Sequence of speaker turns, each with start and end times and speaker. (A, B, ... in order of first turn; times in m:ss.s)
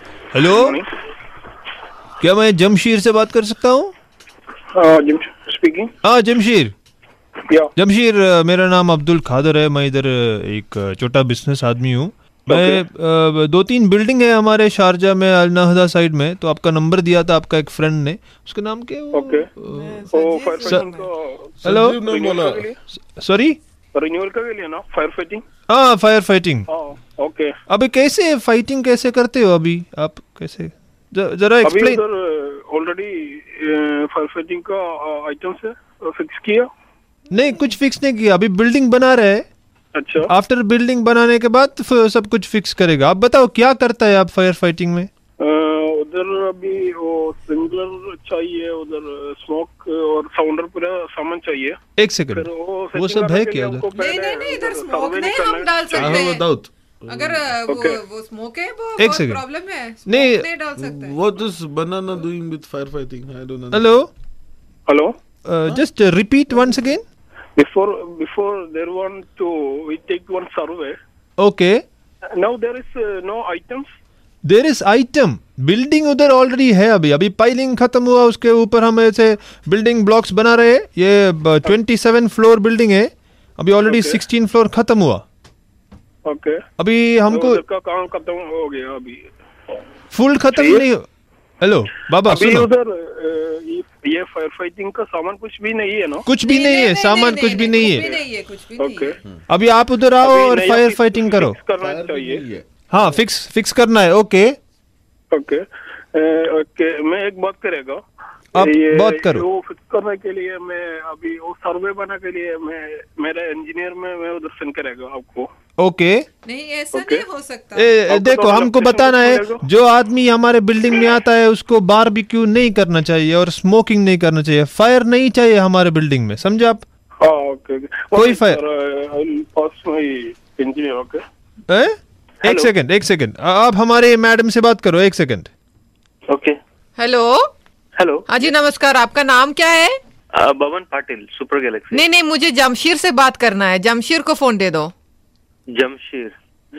0:00.3-0:00.8 A
0:00.4-0:00.9 B
0:02.2-0:03.9 A
0:04.7-0:05.9 B
0:06.0-0:06.7 A
0:07.5-0:07.7 B
0:07.8-0:19.4 A
0:12.5-0:12.8 B
0:19.1-0:19.5 B
0:19.6-0:20.1 C
0:19.7-0:21.0 D
0:20.1-0:22.8 B
0:21.6-0:22.7 C
0:21.6-0:22.0 A
0:23.0-0:23.6 A
0:23.9-0:25.4 B
0:25.7-0:26.6 A
0:26.7-0:27.5 B
0:27.7-0:32.0 A
0:31.6-0:36.7 B
0:37.3-0:39.4 A
0:39.9-0:40.3 B
0:40.3-0:45.1 A
0:45.4-0:51.8 B
0:52.0-0:53.9 A
0:52.3-0:56.2 B
0:53.9-0:56.4 D
0:55.9-0:57.4 C
0:57.1-1:01.2 D
0:57.7-0:58.0 B
0:59.0-0:59.4 A
1:00.0-1:00.4 A
1:00.8-1:03.8 C
1:03.7-1:04.1 A
1:04.9-1:05.1 B
1:05.4-1:07.0 A
1:07.6-1:11.0 B
1:11.4-1:11.8 A
1:12.4-1:13.9 B
1:14.4-1:25.2 A
1:23.8-1:24.2 B
1:26.2-1:26.6 B
1:26.8-1:27.6 A
1:27.3-1:29.3 B
1:30.1-1:31.0 A
1:30.5-1:30.8 B
1:31.6-1:32.7 A
1:32.3-1:36.3 B
1:36.3-1:38.1 A
1:36.4-1:39.1 D
1:37.9-1:38.1 B
1:38.8-1:39.2 B
1:39.5-1:41.6 A
1:40.2-1:42.4 B
1:41.8-1:42.6 C
1:42.9-1:44.6 A
1:45.3-1:48.0 B
1:48.5-1:49.4 A
1:48.6-1:55.5 B
1:55.8-1:56.3 A
1:56.4-1:57.9 D
1:56.9-1:57.2 B
1:57.7-2:06.8 A
1:58.1-1:59.6 B
2:07.2-2:11.2 B
2:08.1-2:08.6 A
2:11.7-2:15.5 A
2:12.4-2:12.7 B
2:17.0-2:17.5 D
2:18.3-2:20.0 D
2:20.4-2:22.0 E
2:21.9-2:24.9 D
2:25.7-2:26.3 E